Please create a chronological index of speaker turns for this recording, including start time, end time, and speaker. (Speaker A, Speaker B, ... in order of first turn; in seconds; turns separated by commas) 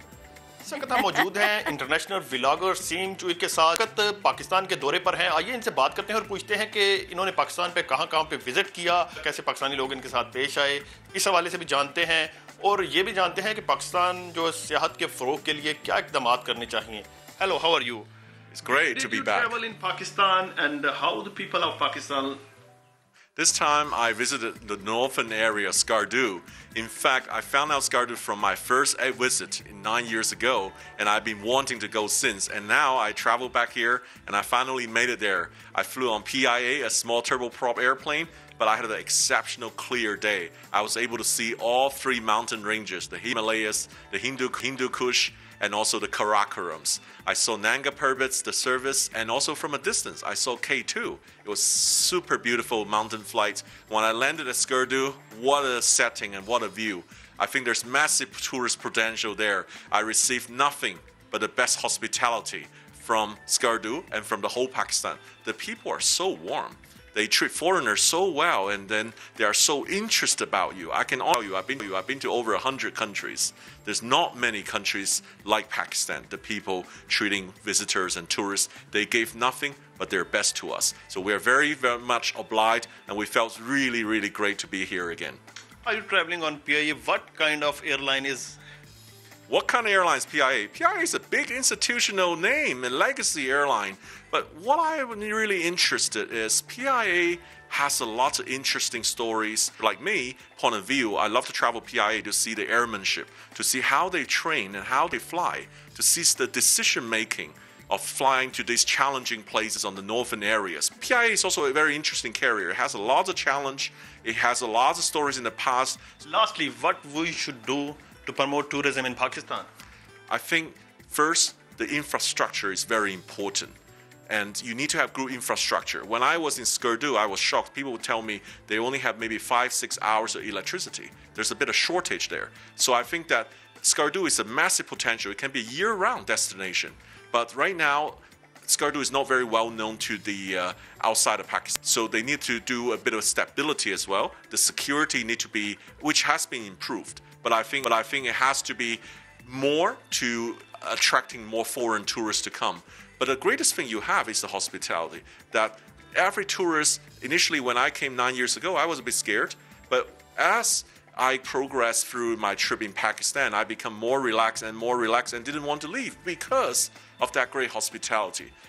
Speaker A: 0.6-18.1, Speaker B: 18.5-19.6, Speaker A: 18.7-22.4, Speaker B: 23.4-85.4, Speaker A: 85.8-88.6, Speaker B: 89.5-116.1, Speaker A: 116.2-119.7, Speaker B: 120.3-123.8, Speaker B: 124.3-168.5